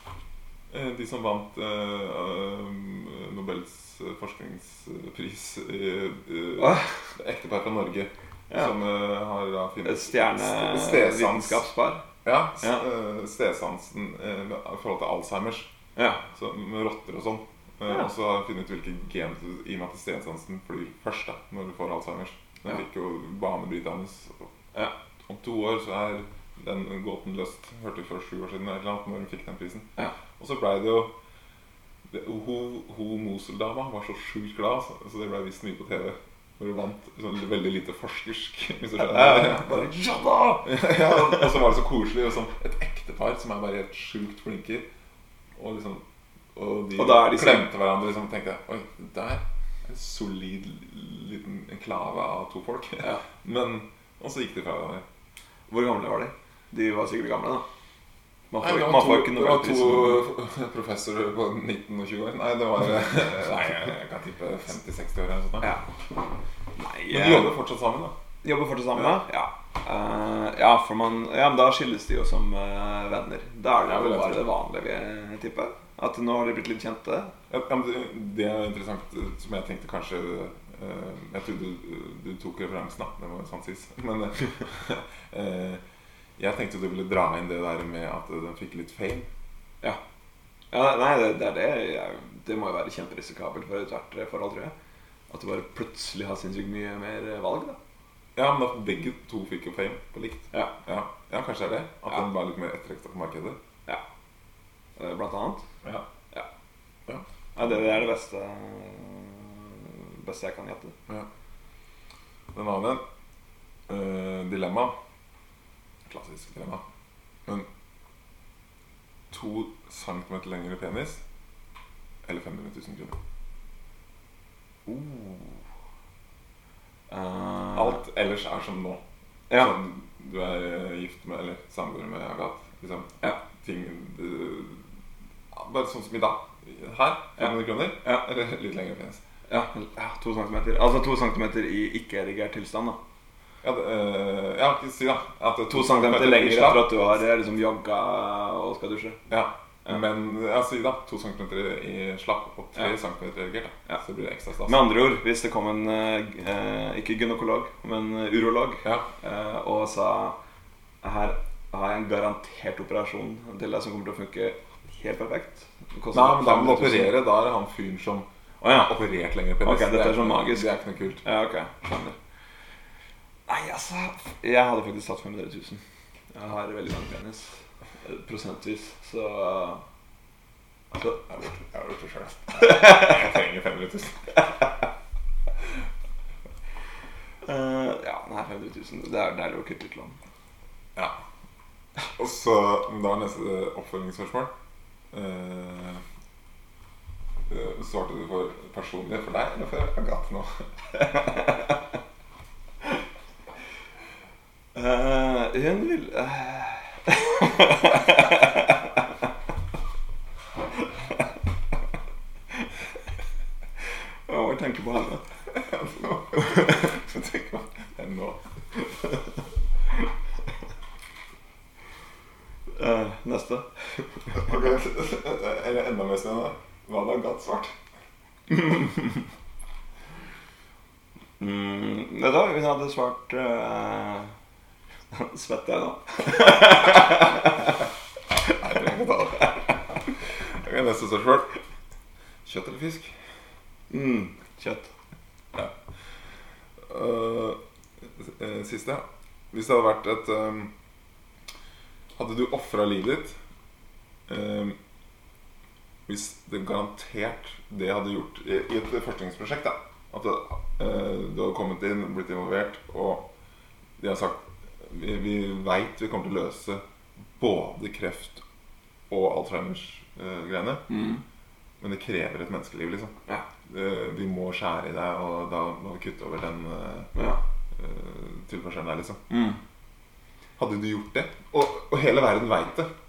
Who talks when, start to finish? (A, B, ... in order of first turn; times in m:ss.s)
0:00.7-0:11.6 A
0:06.6-0:06.9 B
0:09.8-0:12.0 B
0:12.2-0:15.7 A
0:16.0-0:16.2 B
0:16.3-0:24.5 A
0:25.2-0:31.1 A
0:32.1-0:44.9 A
0:39.0-0:40.9 B
0:45.6-0:46.0 A
0:46.6-0:55.0 A
0:47.0-0:47.7 B
0:55.7-0:57.7 B
0:58.5-1:00.2 B
0:58.6-1:05.8 A
1:05.6-1:05.9 B
1:06.8-1:07.5 B
1:07.1-1:08.1 A
1:08.4-1:17.3 B
1:09.0-1:09.2 A
1:13.8-1:14.5 A
1:17.5-1:25.8 A
1:26.4-1:29.3 A
1:30.7-1:34.7 B
1:35.3-1:37.8 B
1:38.4-1:43.6 A
1:45.0-1:45.7 B
1:47.1-1:47.9 A
1:47.6-1:51.0 B
1:52.5-1:53.0 A
1:53.9-1:55.0 A
1:56.1-1:56.8 A
1:59.3-2:01.2 A
2:02.3-2:03.2 A
2:04.9-2:05.5 A
2:07.1-2:08.0 B
2:07.7-2:14.8 A
2:15.5-2:19.2 A
2:17.4-2:18.2 B
2:19.5-2:23.0 B
2:23.6-2:26.9 A
2:25.7-2:29.2 B
2:29.3-2:34.8 A
2:34.6-2:40.4 B
2:41.0-2:47.2 B
2:46.1-2:51.2 A
2:48.6-2:48.9 B
2:49.6-2:50.7 B
2:51.2-2:52.2 B
2:53.5-2:55.8 B
2:56.3-2:59.8 B
3:01.0-3:04.4 A
3:02.8-3:03.0 B
3:07.4-3:10.2 B
3:12.1-3:14.5 A
3:15.1-3:16.0 A
3:17.5-3:20.6 A
3:24.8-3:28.8 B
3:34.3-3:35.2 B
3:35.5-3:38.4 A
3:36.4-3:36.8 B
3:42.8-3:44.1 B
3:44.3-3:47.7 A
3:48.5-3:49.2 B
3:51.4-3:54.3 B
3:55.1-3:57.7 B
3:58.6-3:59.5 A
4:00.5-4:01.5 A
4:02.4-4:03.2 A
4:03.9-4:04.9 B
4:06.9-4:07.6 A
4:08.2-4:10.7 A
4:12.2-4:13.4 A
4:14.3-4:14.8 A
4:16.1-4:23.3 A
4:24.0-4:26.8 A
4:27.4-4:28.4 A
4:29.1-4:30.8 A
4:30.9-4:31.2 B
4:31.8-4:33.1 A
4:33.7-4:37.1 A
4:37.2-4:37.4 B
4:37.8-4:39.2 A
4:39.3-4:39.6 B
4:40.6-4:42.9 A